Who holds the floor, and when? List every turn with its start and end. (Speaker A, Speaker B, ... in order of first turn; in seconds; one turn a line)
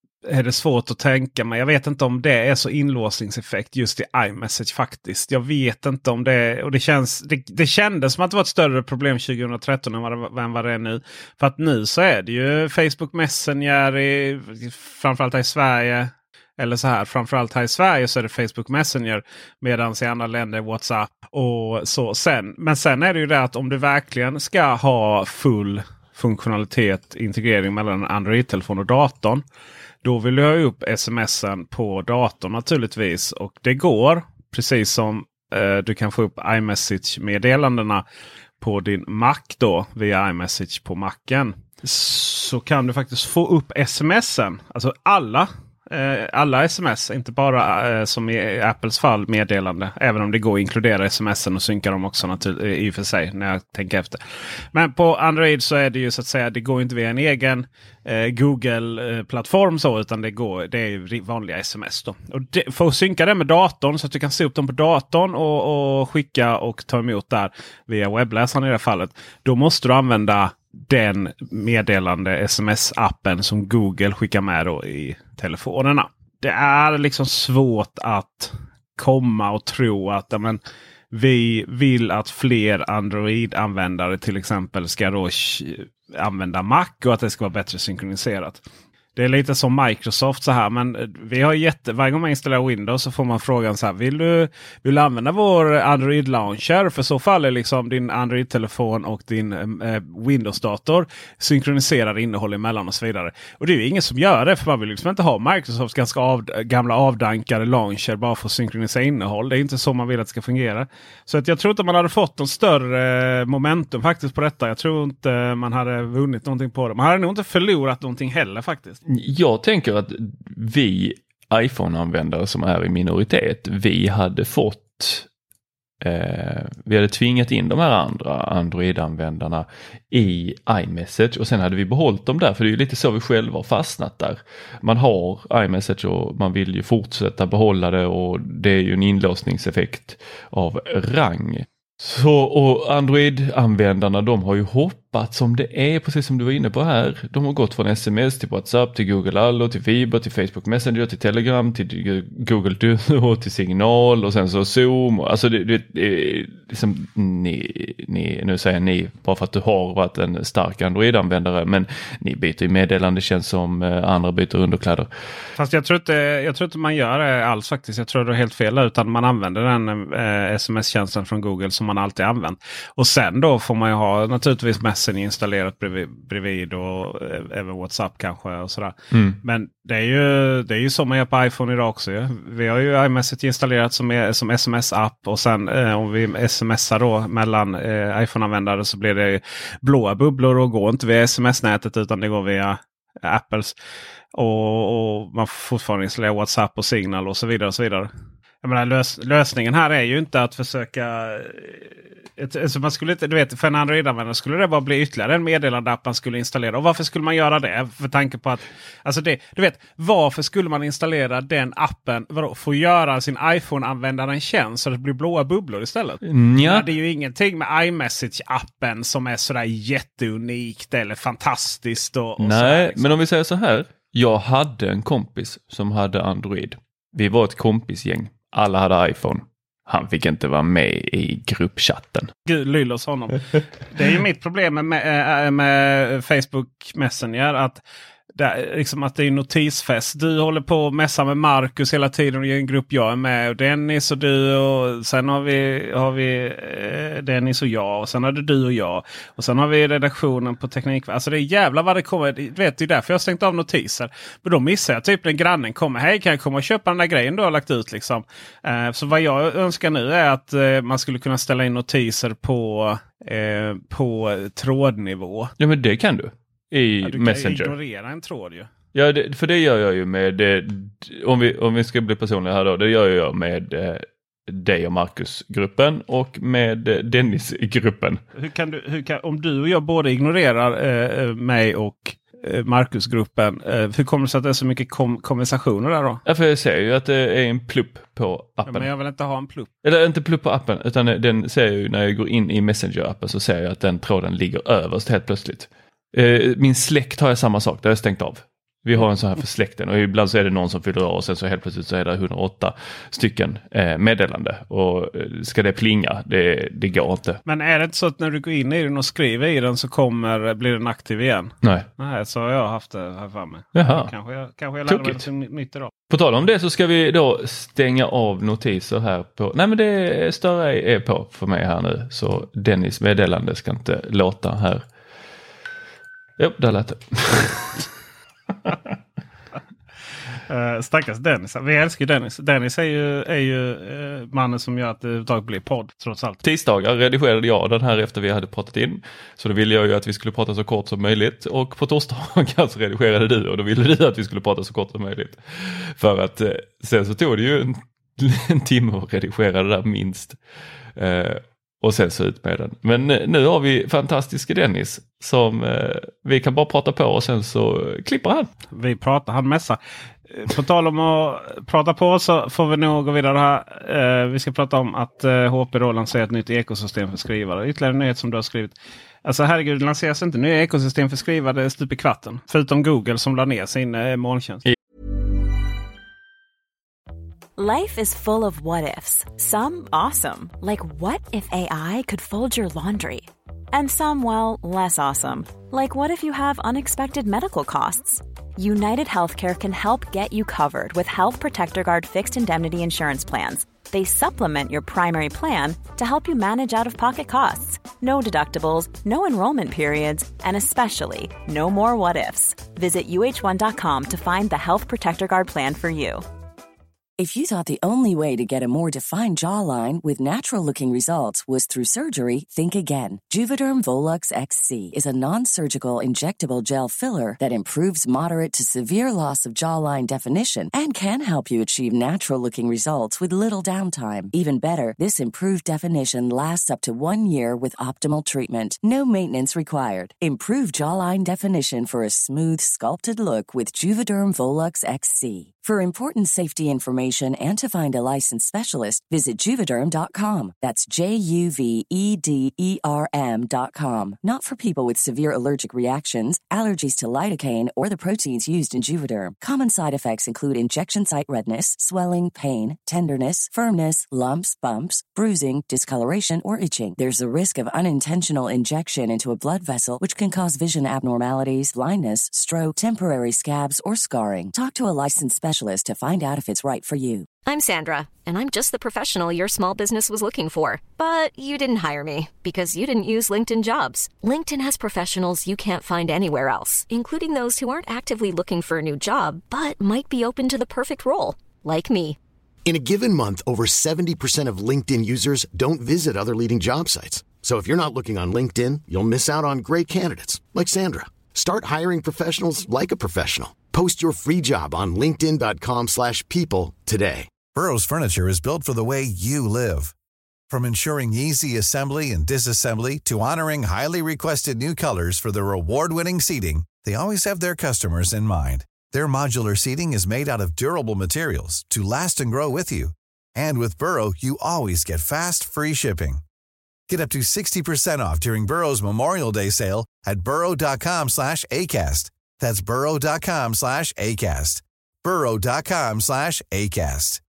Speaker A: 0.3-29.4
Speaker A: 30.0-38.0
Speaker A: 38.6-80.6
Speaker A: 81.1-88.6
Speaker A: 89.2-119.0
Speaker B: 119.1-125.3
Speaker B: 126.0-165.1
Speaker A: 165.6-193.8
Speaker A: 194.3-198.1
Speaker A: 198.6-223.1
Speaker B: 216.2-216.9
Speaker B: 222.4-232.3
Speaker A: 232.5-237.8
Speaker A: 238.3-265.5
Speaker B: 265.6-267.7
Speaker A: 267.0-268.7
Speaker B: 268.9-278.2
Speaker A: 278.4-286.2
Speaker B: 286.3-288.9
Speaker A: 288.7-289.7
Speaker B: 289.8-307.4
Speaker A: 307.5-315.9
Speaker B: 313.7-314.1
Speaker B: 314.9-315.2
Speaker B: 316.1-324.8
Speaker B: 326.4-327.9
Speaker A: 330.5-336.4
Speaker B: 336.4-350.4
Speaker B: 351.0-358.5
Speaker A: 358.7-374.6
Speaker C: 377.6-406.2
Speaker D: 407.2-467.3
Speaker E: 467.4-482.2
Speaker F: 482.7-497.3
Speaker G: 497.5-499.9
Speaker G: 500.5-516.2
Speaker G: 516.9-527.2